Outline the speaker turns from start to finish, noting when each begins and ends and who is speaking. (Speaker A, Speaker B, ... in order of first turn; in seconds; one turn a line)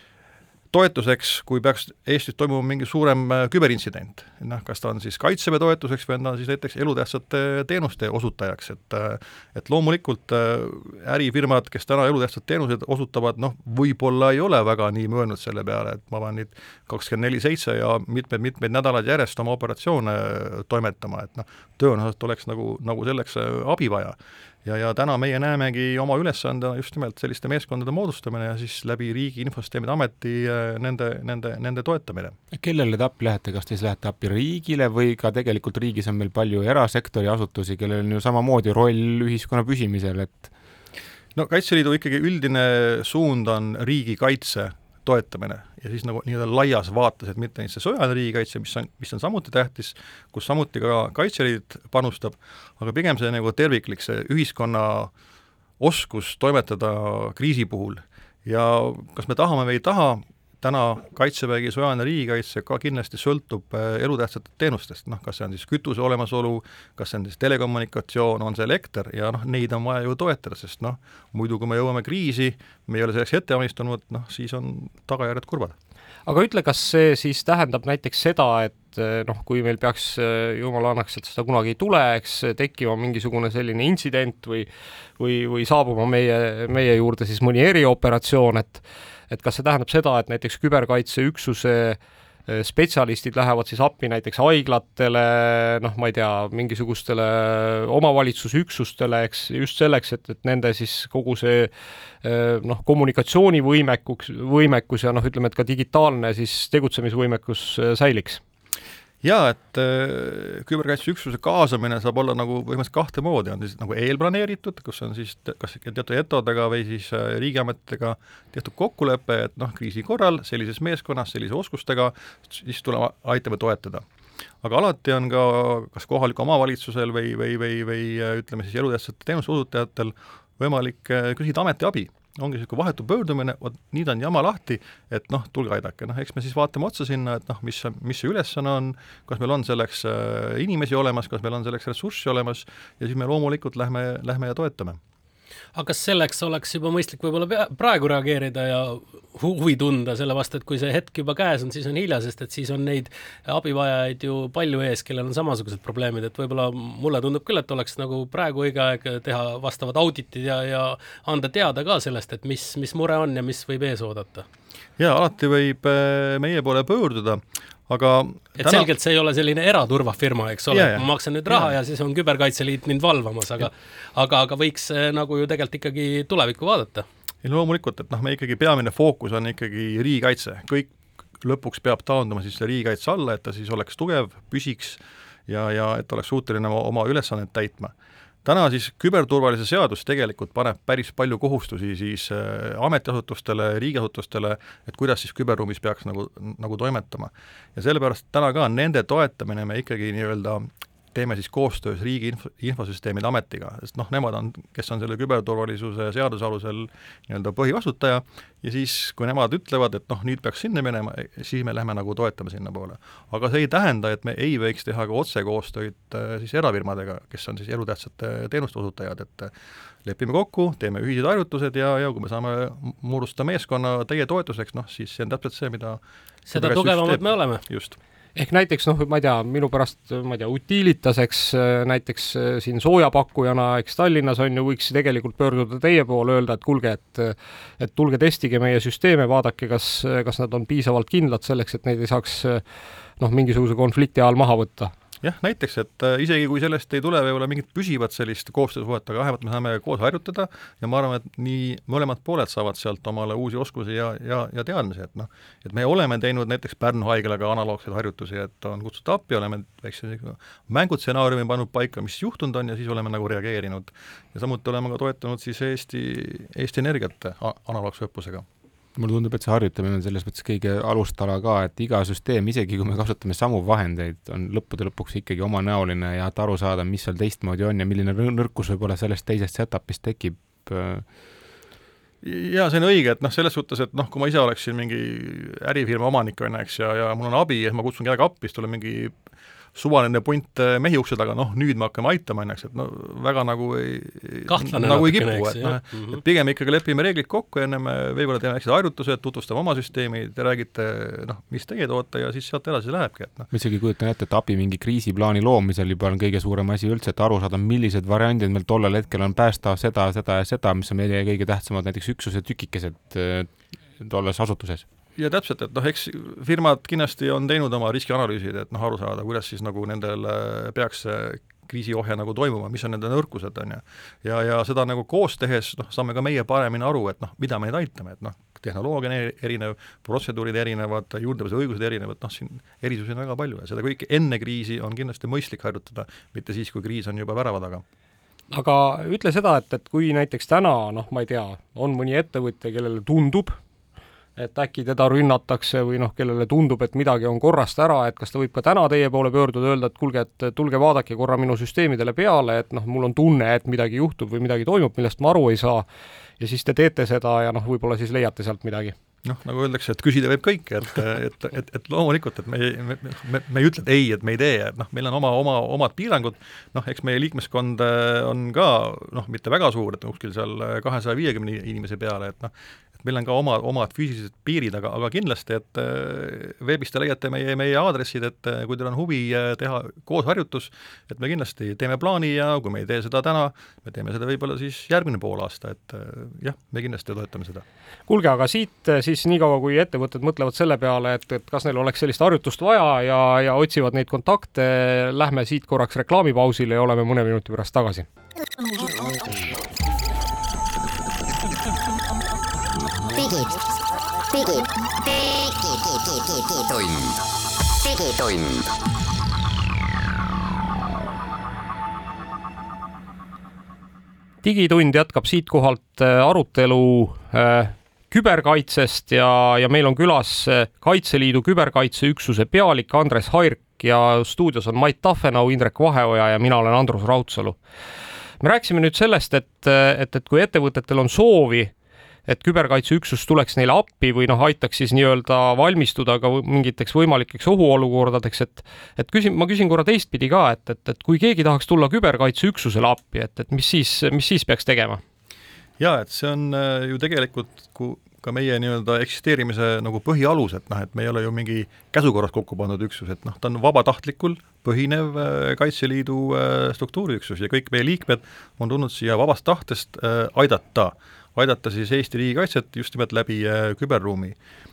Speaker A: 0.7-32.4
Speaker B: 32.5-40.5
Speaker A: 41.3-55.1
Speaker A: 55.8-75.7
Speaker C: 76.2-84.7
Speaker C: 85.2-101.7
Speaker C: 102.2-108.4
Speaker A: 109.2-124.0
Speaker A: 124.6-145.0
Speaker D: 145.7-164.4
Speaker A: 165.0-168.9
Speaker D: 168.6-177.1
Speaker A: 170.7-171.7
Speaker A: 177.4-187.9
Speaker A: 188.4-219.5
Speaker A: 220.0-227.9
Speaker D: 226.5-227.6
Speaker C: 228.3-242.6
Speaker C: 243.2-244.9
Speaker A: 245.2-268.4
Speaker B: 268.9-281.1
Speaker A: 282.2-289.1
Speaker A: 289.7-303.5
Speaker D: 294.5-296.2
Speaker B: 303.5-314.8
Speaker A: 315.2-337.8
Speaker C: 338.5-343.6
Speaker C: 344.4-355.8
Speaker C: 356.4-358.9
Speaker A: 359.2-387.6
Speaker C: 388.1-398.1
Speaker E: 403.0-403.8
Speaker E: 404.3-409.4
Speaker C: 414.4-427.6
Speaker C: 428.4-431.7
Speaker C: 432.3-445.0
Speaker A: 445.8-464.4